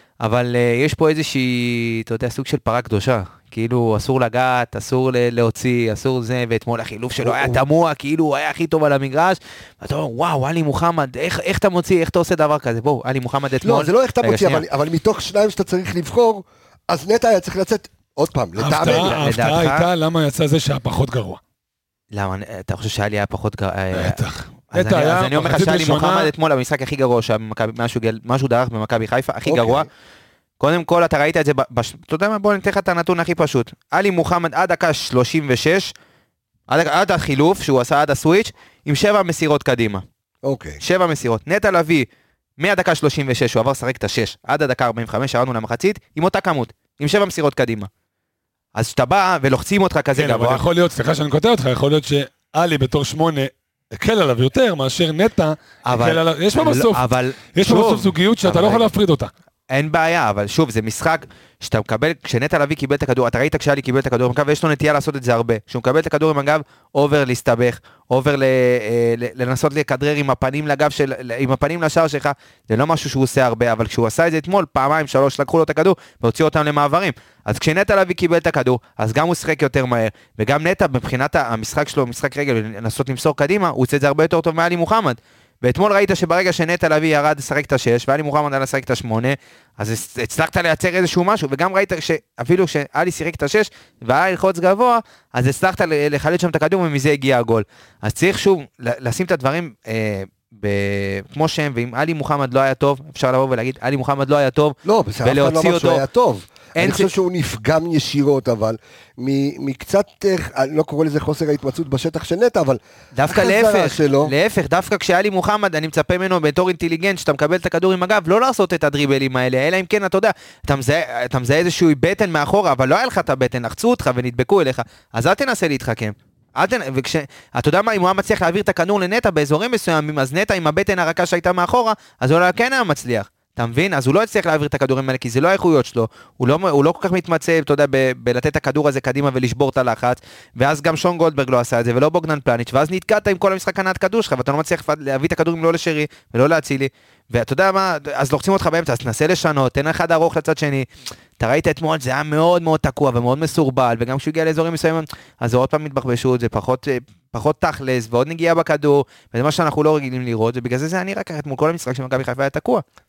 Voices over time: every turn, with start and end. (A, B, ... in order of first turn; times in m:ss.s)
0:00.2-0:14.6 A
0:07.2-0:07.6 B
0:13.6-0:19.2 B
0:18.6-0:21.4 C
0:18.8-0:19.9 A
0:22.1-0:29.9 A
0:23.9-0:26.3 C
0:29.4-0:29.9 B
0:30.6-0:35.9 A
0:36.7-0:40.0 A
0:40.4-0:40.8 B
0:40.8-0:42.1 A
0:42.6-0:47.9 A
0:48.7-0:50.6 A
0:50.2-0:59.3 C
0:55.8-0:58.9 A
0:59.7-1:46.0 A
1:44.8-1:54.3 B
1:46.8-1:47.1 A
1:53.1-2:30.8 A
2:31.4-2:42.8 A